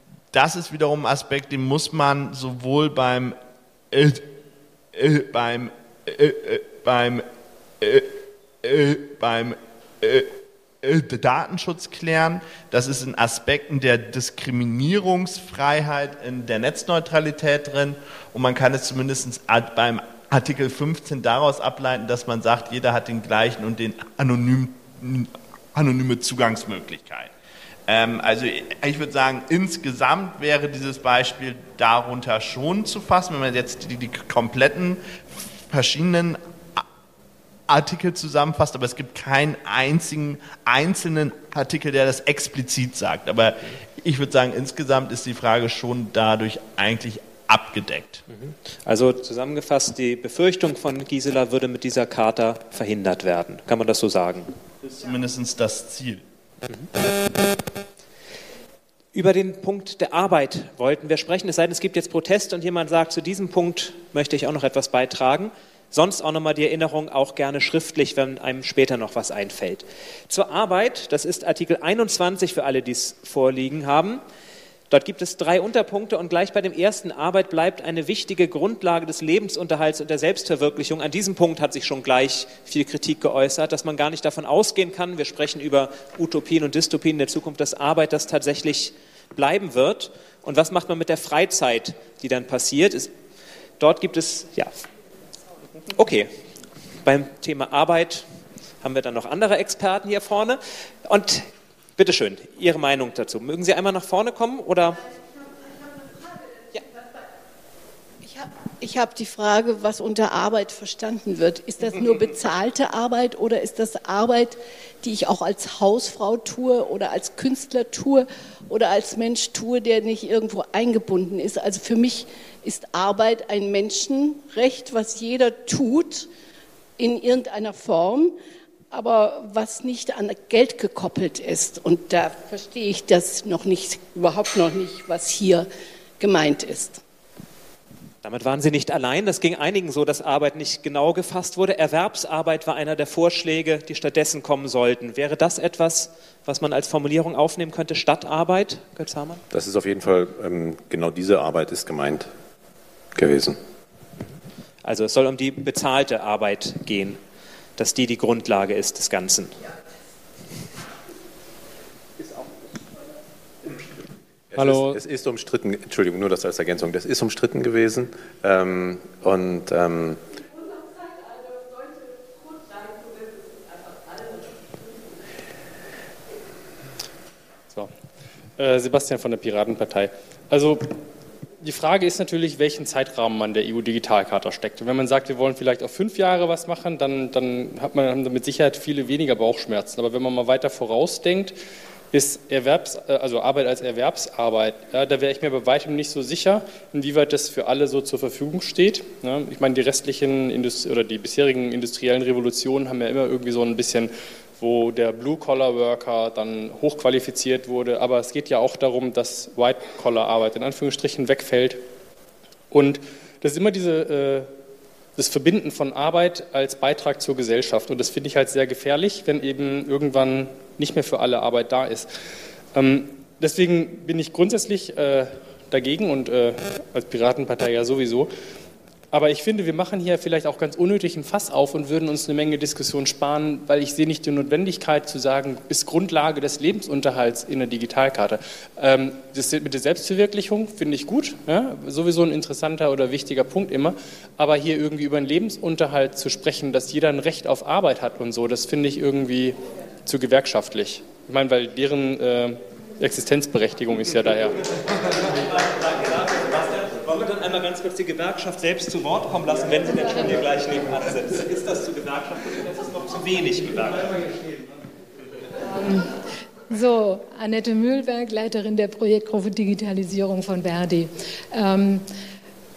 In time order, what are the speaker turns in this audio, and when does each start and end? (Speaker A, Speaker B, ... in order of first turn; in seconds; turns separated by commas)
Speaker A: 0.3-3.4, Speaker A: 3.9-4.3, Speaker A: 4.9-7.2, Speaker A: 7.8-8.1, Speaker A: 8.6-10.3, Speaker A: 10.8-27.3, Speaker A: 27.9-36.8, Speaker A: 37.7-48.2, Speaker B: 48.3-54.5, Speaker A: 54.8-56.2, Speaker B: 59.1-74.2, Speaker B: 74.9-93.1, Speaker B: 93.8-94.7, Speaker B: 95.8-96.3, Speaker B: 97.0-98.2, Speaker B: 98.8-105.0, Speaker C: 108.2-126.3, Speaker C: 127.0-128.3, Speaker C: 128.9-135.7, Speaker C: 136.2-137.0, Speaker B: 138.2-149.4, Speaker D: 149.5-152.3, Speaker D: 153.1-153.6, Speaker B: 154.8-157.2, Speaker B: 157.8-159.6, Speaker D: 164.5-170.2, Speaker E: 164.6-165.0, Speaker E: 178.6-180.9, Speaker E: 181.6-191.5, Speaker E: 192.1-211.8, Speaker E: 212.7-214.5, Speaker E: 215.2-222.1, Speaker E: 222.7-228.3, Speaker E: 229.1-254.6, Speaker B: 255.0-264.3, Speaker F: 266.7-272.0